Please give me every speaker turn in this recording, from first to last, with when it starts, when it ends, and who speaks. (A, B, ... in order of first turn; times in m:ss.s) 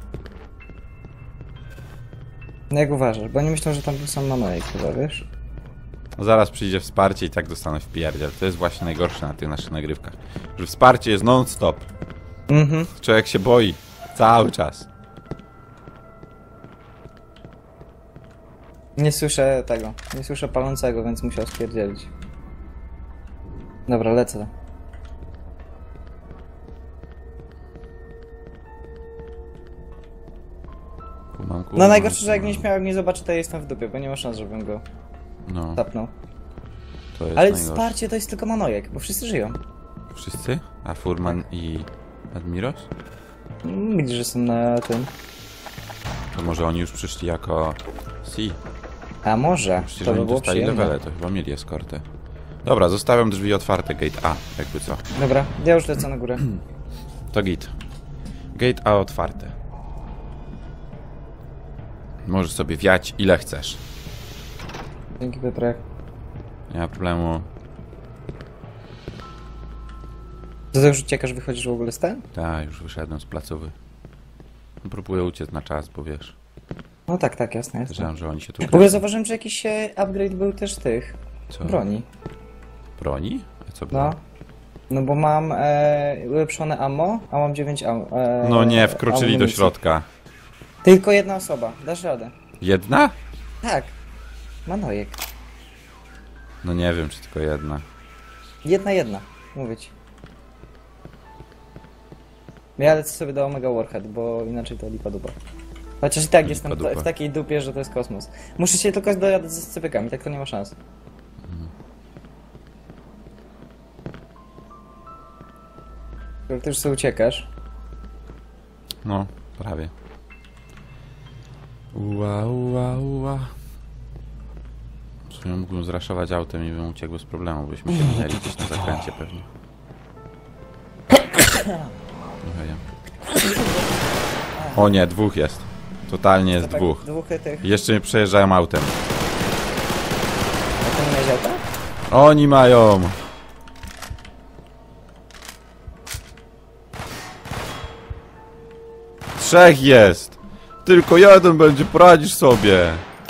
0:02.7-0:05.2 A
0:06.2-0:11.9 B
0:12.5-0:12.9 A
0:13.0-0:14.9 B
0:19.0-0:22.1 A
0:23.9-0:24.5 A
0:31.3-0:32.6 B
0:31.7-0:34.8 A
0:35.4-0:35.8 B
0:35.7-0:36.1 A
0:37.1-0:37.9 B
0:37.3-0:39.6 A
0:40.1-0:42.9 B
0:43.6-0:45.1 A
0:46.3-0:48.6 B
0:49.2-0:51.0 A
0:49.8-0:52.0 B
0:52.6-0:55.0 B
0:55.2-0:56.4 A
0:57.3-0:57.7 B
0:58.5-0:59.5 B
1:02.2-1:03.8 B
1:05.2-1:05.8 A
1:06.7-1:07.5 B
1:10.7-1:12.2 A
1:12.3-1:13.7 B
1:14.8-1:16.3 B
1:17.1-1:18.1 A
1:17.9-1:19.0 B
1:18.6-1:22.1 A
1:21.5-1:21.8 B
1:23.0-1:24.2 B
1:23.9-1:24.2 A
1:24.9-1:29.7 A
1:28.4-1:30.1 B
1:30.8-1:32.3 A
1:32.6-1:33.1 B
1:33.6-1:33.9 A
1:34.6-1:35.2 A
1:36.6-1:37.8 B
1:38.6-1:39.9 A
1:42.8-1:45.4 A
1:46.0-1:50.8 A
1:46.4-1:47.1 B
1:51.4-1:51.7 B
1:56.5-1:57.5 A
1:59.0-1:59.9 B
2:01.9-2:03.5 B
2:05.3-2:09.5 B
2:12.4-2:12.8 B
2:14.5-2:14.9 A
2:14.7-2:17.0 B
2:16.5-2:17.7 A
2:17.6-2:19.0 B
2:20.8-2:21.6 A
2:22.1-2:23.2 B
2:29.4-2:33.0 B